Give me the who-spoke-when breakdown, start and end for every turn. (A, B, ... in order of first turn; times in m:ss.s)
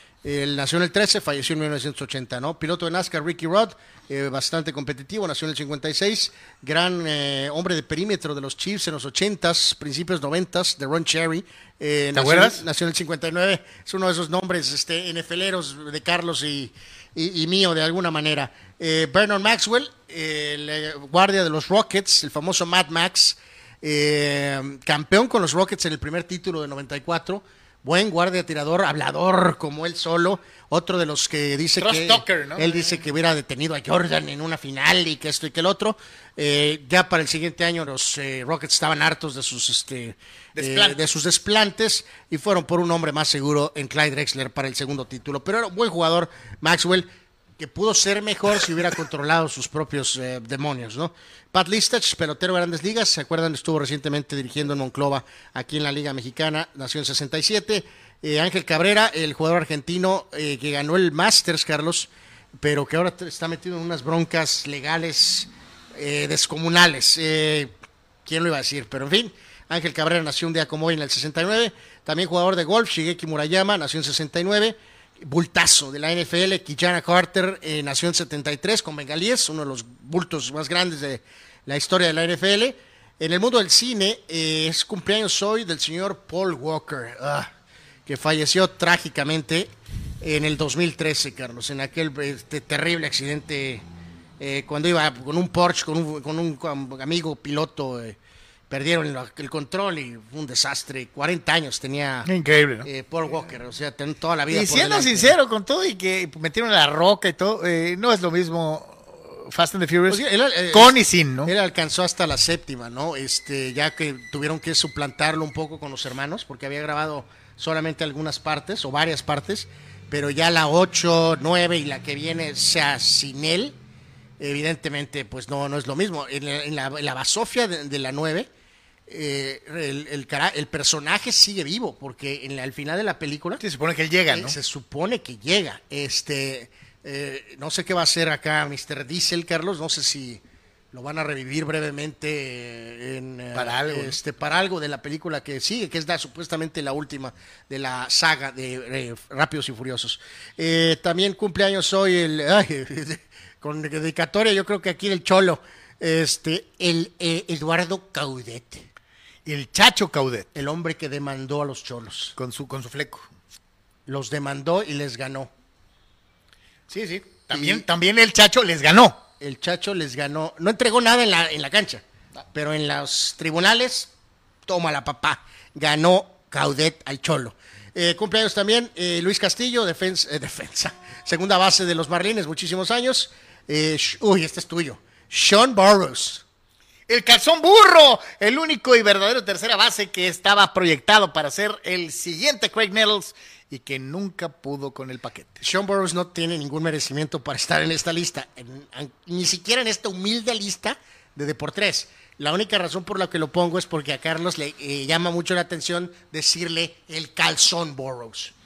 0:00.2-1:07.7 A
0:12.1-0:12.6 B
0:31.8-0:33.0 B
0:40.6-0:41.0 B
1:08.2-1:27.5 A
1:28.0-1:33.8 A
1:34.4-1:38.2 A
1:38.7-1:42.3 A
1:42.2-1:42.9 B
1:42.8-1:45.4 A
1:44.5-1:51.5 B
1:50.1-2:03.8 A
2:04.4-2:08.5 A
2:09.1-2:13.6 A
2:13.6-2:14.6 B
2:14.3-2:38.9 A
2:23.5-2:24.2 B
2:39.4-2:40.5 B
2:40.5-2:42.3 A
2:42.4-2:43.3 B
2:44.0-2:45.5 A
2:46.9-2:47.8 A
2:47.2-2:49.2 B
2:49.4-2:54.1 A
2:54.6-3:06.4 A
3:07.1-3:15.6 B
3:15.6-3:28.5 A